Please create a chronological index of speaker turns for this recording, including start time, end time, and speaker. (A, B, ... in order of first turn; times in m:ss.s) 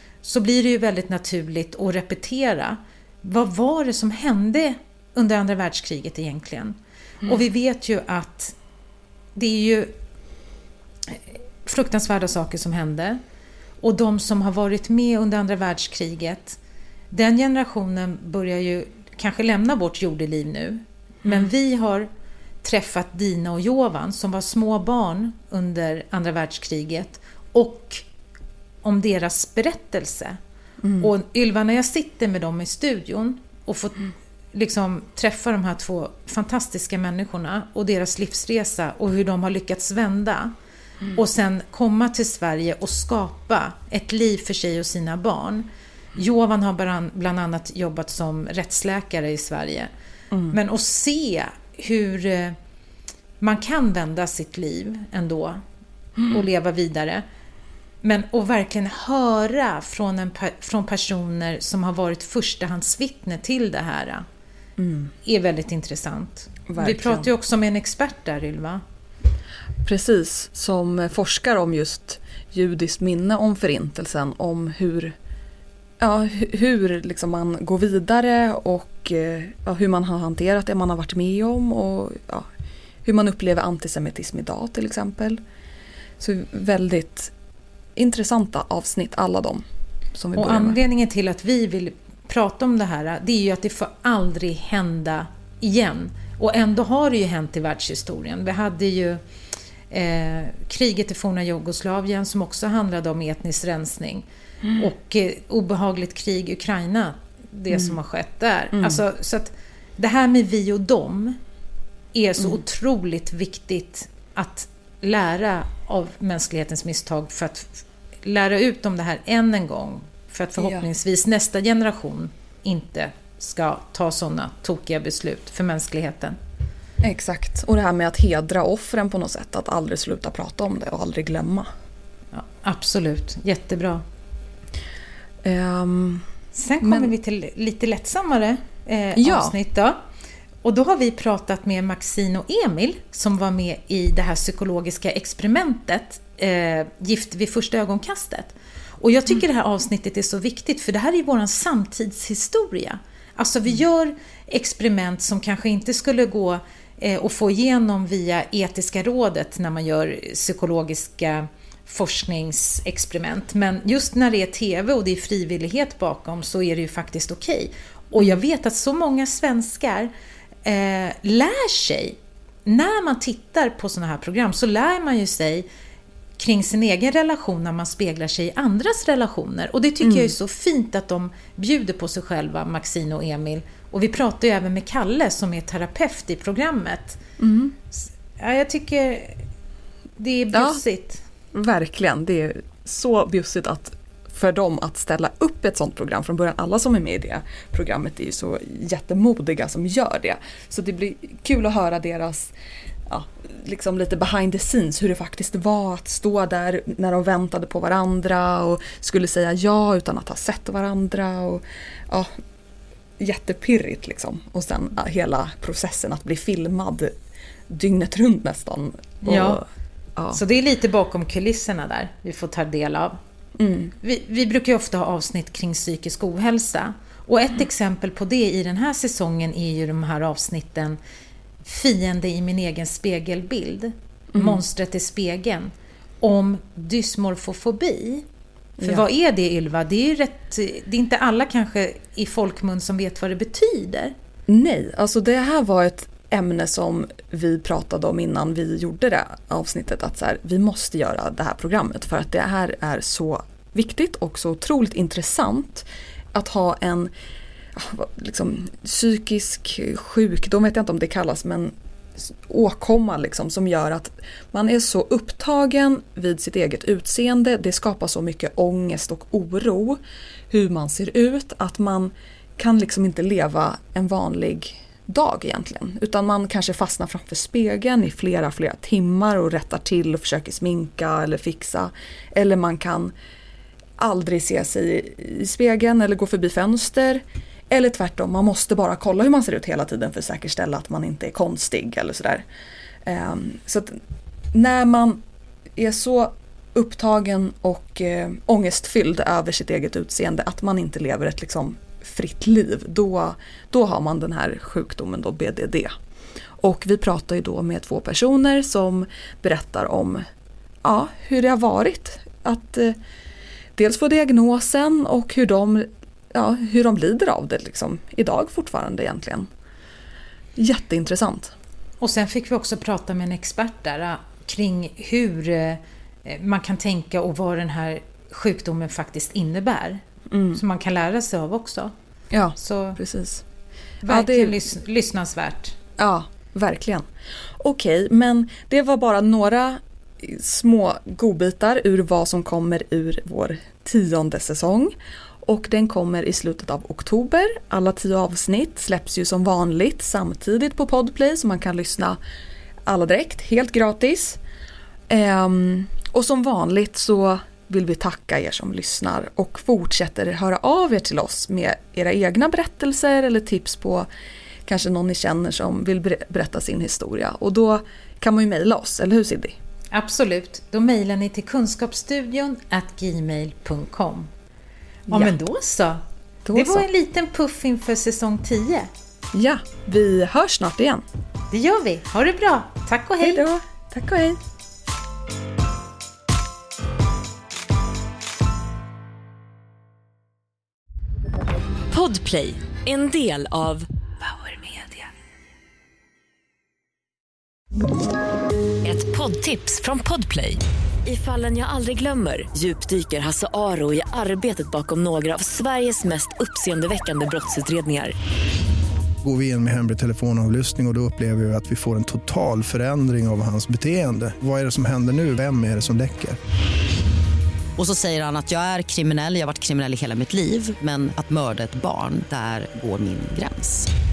0:00.2-0:08.6 A
0:09.4-0:09.9 A
0:11.1-0:13.2 A
0:13.8-0:16.6 A
0:17.1-0:22.1 A
0:22.6-0:28.0 A
0:28.8-0:30.4 A
0:30.8-0:31.1 B
0:31.0-0:40.5 A
0:41.1-0:49.9 A
0:50.5-0:52.6 A
0:53.4-0:55.6 A
0:56.3-0:57.2 A
0:58.0-1:04.2 A
1:04.8-1:05.1 B
1:05.2-1:08.8 A
1:06.7-1:07.3 B
1:09.8-1:15.2 B
1:16.0-1:22.5 B
1:23.0-1:25.4 B
1:26.2-1:27.3 B
1:28.0-1:29.6 B
1:30.2-1:30.8 B
1:30.4-1:39.2 A
1:39.9-1:51.4 A
1:47.7-1:48.0 B
1:48.7-1:49.0 B
1:52.1-2:06.4 A
2:00.6-2:00.9 B
2:07.0-2:11.7 B
2:12.3-2:14.0 A
2:15.4-2:16.2 B
2:16.6-2:20.0 A
2:16.8-2:17.1 B
2:19.2-2:19.6 B
2:20.6-2:50.1 A
2:50.6-2:55.7 A
2:56.4-3:07.2 A
3:00.0-3:00.3 B
3:07.4-3:07.8 B
3:08.4-3:09.4 A
3:10.2-3:11.2 A
3:10.5-3:10.8 B
3:11.5-3:22.5 B
3:23.1-3:32.3 B
3:33.2-3:37.1 B
3:37.7-3:39.6 B
3:39.2-3:39.6 A
3:40.3-3:43.2 A
3:43.6-3:43.9 B
3:44.0-3:51.0 A
3:51.6-3:58.2 A
3:54.3-3:54.6 B
3:58.8-3:59.1 B
3:58.8-4:04.1 A
4:04.5-4:17.1 B
4:17.8-4:30.0 B
4:30.5-4:43.1 B
4:44.0-4:52.4 B
4:53.1-4:54.0 B
4:54.5-4:55.2 B
4:55.8-5:05.9 B
5:06.6-5:10.2 B
5:10.8-5:13.0 B
5:13.8-5:19.5 B
5:20.6-5:21.5 B
5:22.0-5:30.0 A
5:30.3-5:30.6 B
5:30.5-5:31.9 A
5:32.3-5:33.4 B
5:32.6-5:33.0 A
5:34.0-5:35.8 A
5:34.1-5:34.6 B
5:36.0-5:37.0 B
5:37.6-5:52.2 B
5:52.9-5:54.4 B
5:55.1-6:04.1 B
6:04.7-6:09.6 B
6:09.9-6:14.3 A
6:15.1-6:15.4 B
6:15.1-6:16.0 A
6:16.5-6:16.9 B
6:16.5-6:18.9 A
6:19.3-6:21.0 B
6:21.5-6:23.4 A
6:23.2-6:24.4 B
6:31.9-6:35.0 C
6:38.8-6:48.2 C
6:49.2-6:56.4 D
6:57.8-7:03.9 E